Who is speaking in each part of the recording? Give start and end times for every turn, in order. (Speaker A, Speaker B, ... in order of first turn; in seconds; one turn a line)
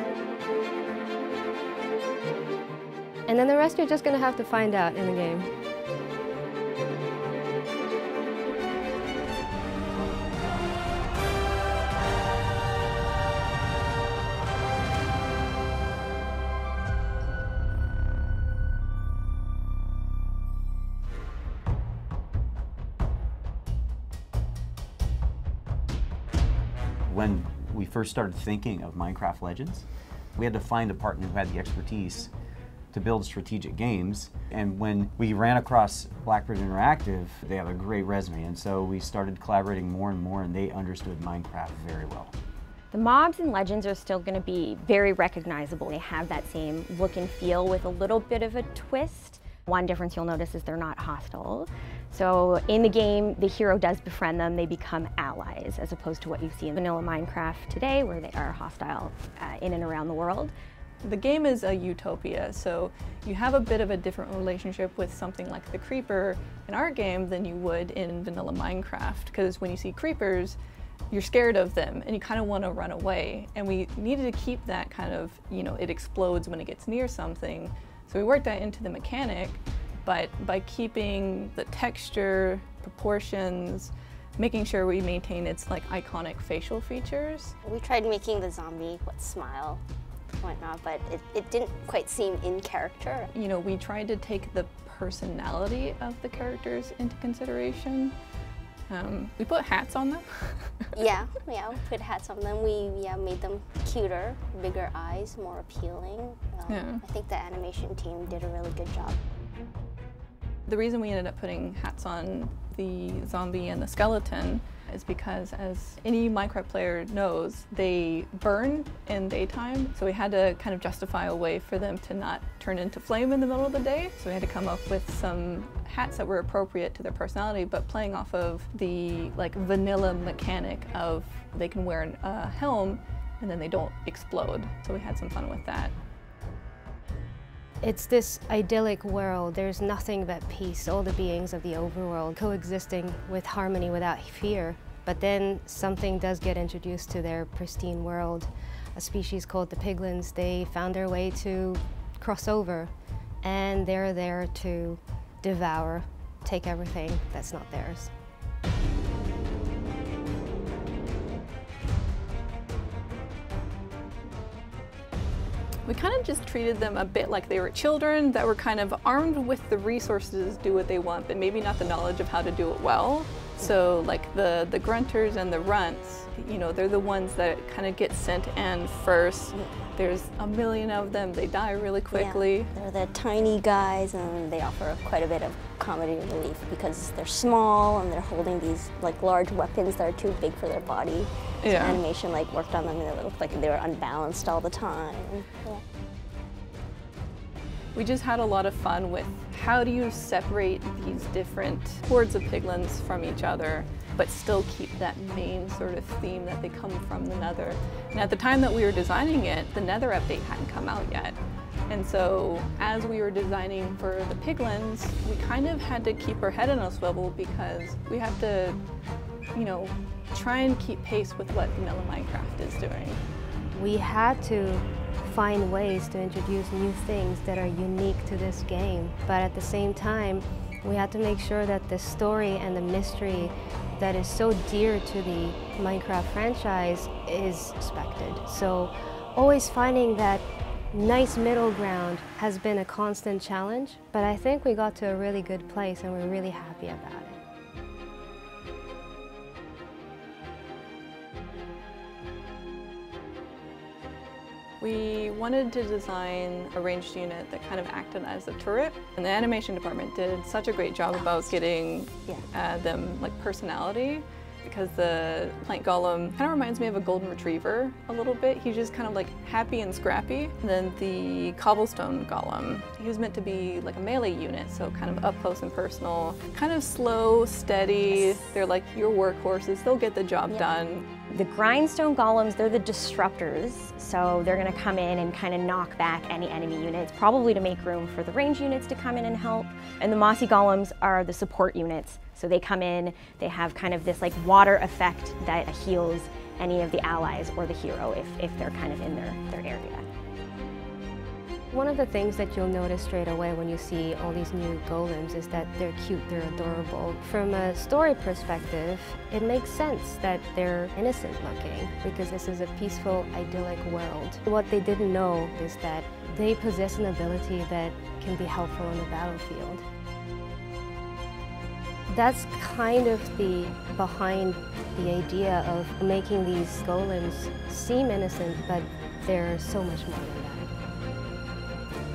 Speaker A: 3.3-5.5
Speaker B: 27.1-32.3
Speaker B: 32.9-42.3
Speaker C: 42.9-60.5
Speaker D: 61.0-70.6
Speaker D: 71.1-87.6
Speaker E: 87.6-89.8
Speaker E: 90.4-93.3
Speaker D: 93.3-98.2
Speaker D: 98.9-100.9
Speaker E: 101.0-109.2
Speaker D: 106.7-107.0
Speaker D: 110.7-135.9
Speaker A: 137.8-152.9
Speaker A: 153.4-158.1
Speaker D: 165.9-182.7
Speaker E: 182.1-195.8
Speaker D: 191.6-192.0
Speaker D: 197.9-218.8
Speaker D: 219.5-223.2
Speaker A: 223.7-247.4
Speaker D: 254.8-281.1
Speaker C: 281.3-300.1
Speaker A: 301.7-319.8
Speaker A: 322.1-330.7